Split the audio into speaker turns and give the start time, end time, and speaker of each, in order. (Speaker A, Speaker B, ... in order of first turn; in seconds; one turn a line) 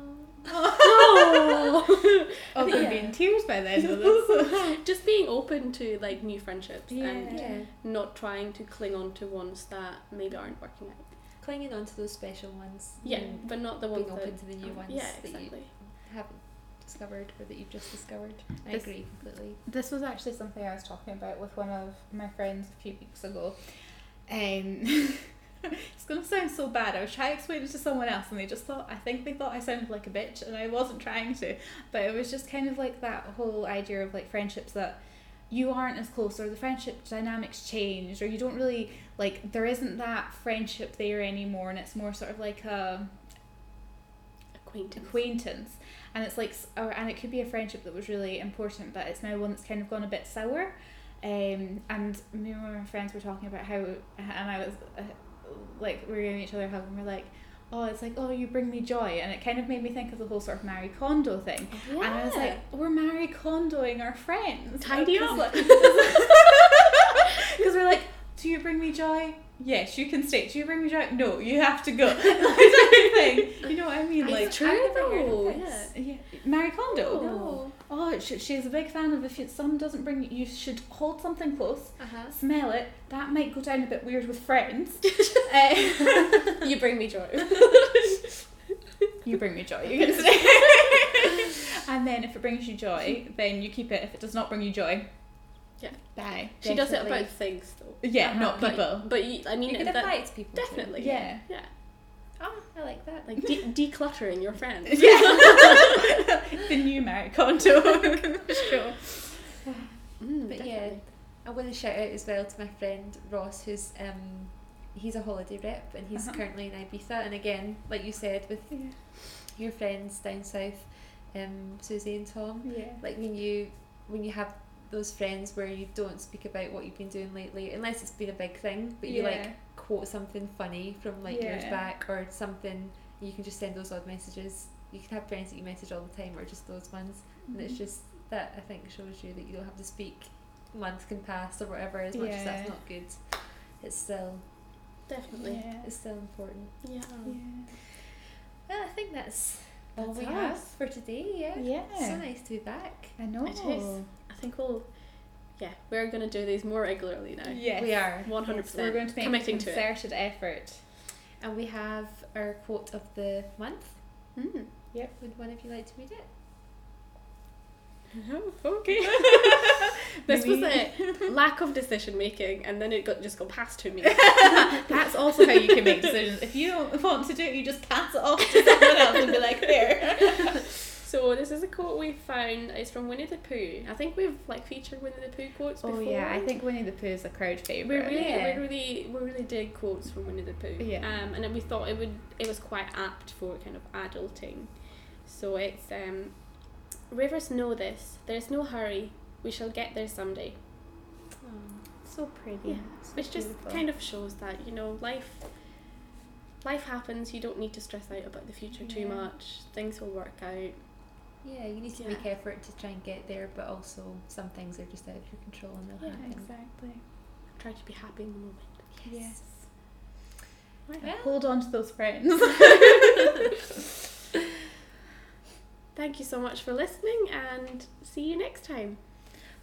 Speaker A: 0.3-11.1
Speaker B: 0.5-1.6
Speaker B: 2.5-4.8
Speaker B: 6.9-7.6
Speaker C: 7.3-7.7
Speaker C: 11.4-19.6
Speaker A: 13.0-15.7
Speaker B: 18.7-23.6
Speaker B: 24.3-43.1
Speaker A: 44.6-45.2
Speaker B: 45.0-74.8
Speaker A: 61.7-62.6
Speaker A: 64.8-66.5
Speaker C: 65.5-66.0
Speaker C: 74.2-75.9
Speaker A: 74.2-76.0
Speaker B: 75.9-86.6
Speaker A: 76.9-77.5
Speaker C: 77.1-77.8
Speaker C: 82.0-82.3
Speaker A: 86.5-88.2
Speaker B: 89.2-95.2
Speaker A: 95.8-101.7
Speaker B: 96.1-96.5
Speaker C: 96.6-97.3
Speaker B: 98.0-99.1
Speaker C: 98.2-98.8
Speaker C: 99.7-101.3
Speaker B: 101.0-101.5
Speaker C: 102.4-103.3
Speaker A: 103.2-106.1
Speaker B: 104.9-109.9
Speaker A: 108.5-108.9
Speaker A: 110.2-111.0
Speaker C: 110.5-144.7
Speaker B: 118.7-119.0
Speaker B: 122.6-123.0
Speaker B: 129.1-129.6
Speaker B: 131.3-131.8
Speaker B: 137.5-137.8
Speaker B: 142.1-142.8
Speaker A: 145.1-145.7
Speaker B: 145.4-145.9
Speaker C: 145.8-147.9
Speaker A: 146.8-147.4
Speaker B: 147.2-147.7
Speaker C: 148.7-153.2
Speaker B: 150.0-150.6
Speaker A: 150.2-150.6
Speaker B: 151.6-152.3
Speaker B: 153.2-154.1
Speaker A: 153.4-159.9
Speaker B: 157.5-160.9
Speaker C: 157.8-158.6
Speaker C: 161.4-164.0
Speaker A: 164.3-164.7
Speaker C: 165.2-166.3
Speaker A: 168.1-174.9
Speaker B: 169.1-171.3
Speaker B: 174.2-180.6
Speaker A: 180.9-186.5
Speaker B: 185.8-188.6
Speaker A: 187.8-200.6
Speaker C: 188.1-188.6
Speaker B: 190.8-191.1
Speaker C: 201.4-201.9
Speaker B: 202.0-203.8
Speaker A: 202.7-205.9
Speaker A: 206.6-210.9
Speaker B: 208.8-209.3
Speaker C: 211.4-216.5
Speaker A: 211.9-212.2
Speaker A: 216.0-216.2
Speaker B: 216.2-217.0
Speaker A: 217.5-218.9
Speaker C: 218.9-219.6
Speaker B: 219.1-219.7
Speaker C: 221.0-221.3
Speaker B: 221.0-223.4
Speaker A: 225.9-229.3